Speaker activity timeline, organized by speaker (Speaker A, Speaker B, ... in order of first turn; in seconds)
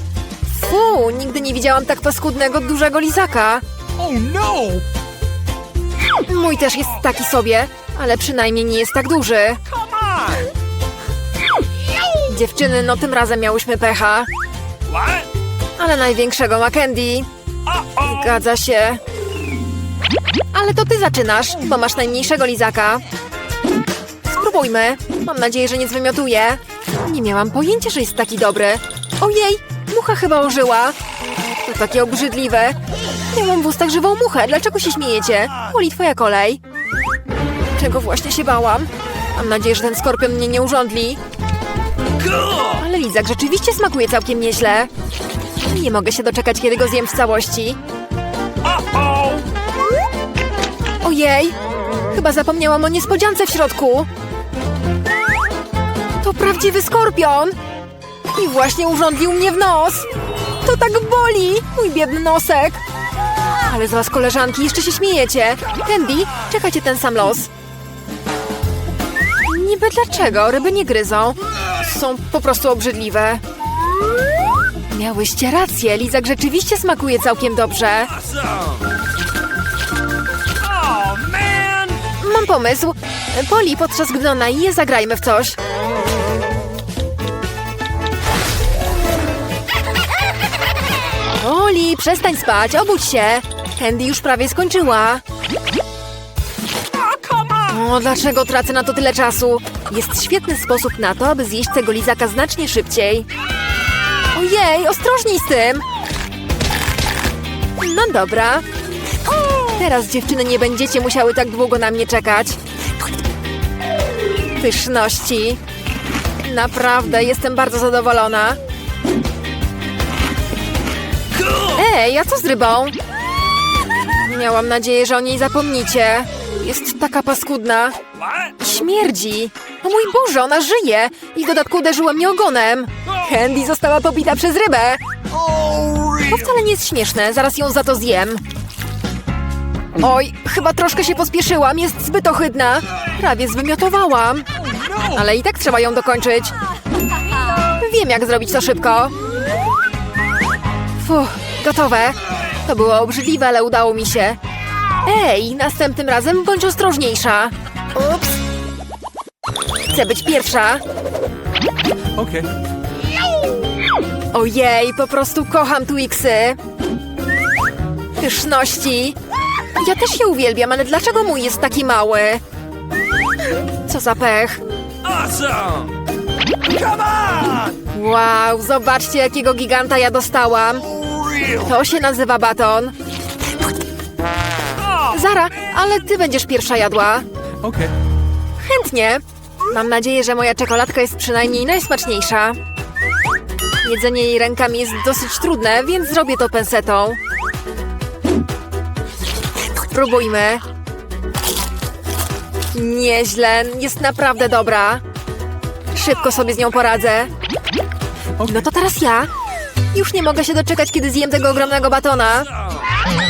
Speaker A: 0.5-3.6, 6.3-9.6, 12.3-14.3, 15.8-17.3, 17.9-19.0, 20.5-23.0, 24.3-31.0, 31.6-32.8, 33.3-36.6, 37.8-41.2, 42.6-44.9, 45.6-47.8, 51.0-51.6, 52.1-54.1, 56.2-57.5, 58.3-60.1, 60.6-62.8, 63.7-67.5, 69.5-73.4, 74.9-78.1, 82.1-85.6, 91.4-95.2, 97.6-103.3, 104.3-105.8, 107.8-108.7, 109.7-112.6, 114.6-115.6, 116.4-118.6, 121.5-123.0, 124.2-128.0, 128.6-135.0, 136.3-138.4, 140.0-144.5, 145.1-146.6, 147.8-149.1, 151.0-154.4, 155.0-158.2, 159.9-160.8, 164.3-166.6, 168.2-169.2, 169.8-172.4, 173.9-174.6, 177.9-180.9, 181.5-182.9, 185.0-187.3, 188.6-192.6, 193.8-197.2, 199.9-200.6, 202.7-205.0, 205.9-207.3, 208.4-209.3, 209.9-212.5
Speaker B: 4.0-4.9, 9.7-10.5, 15.0-15.2, 48.6-49.5, 80.7-82.0, 135.3-136.5, 144.7-145.2, 162.2-162.5, 175.1-175.9, 176.8-177.7, 187.6-187.9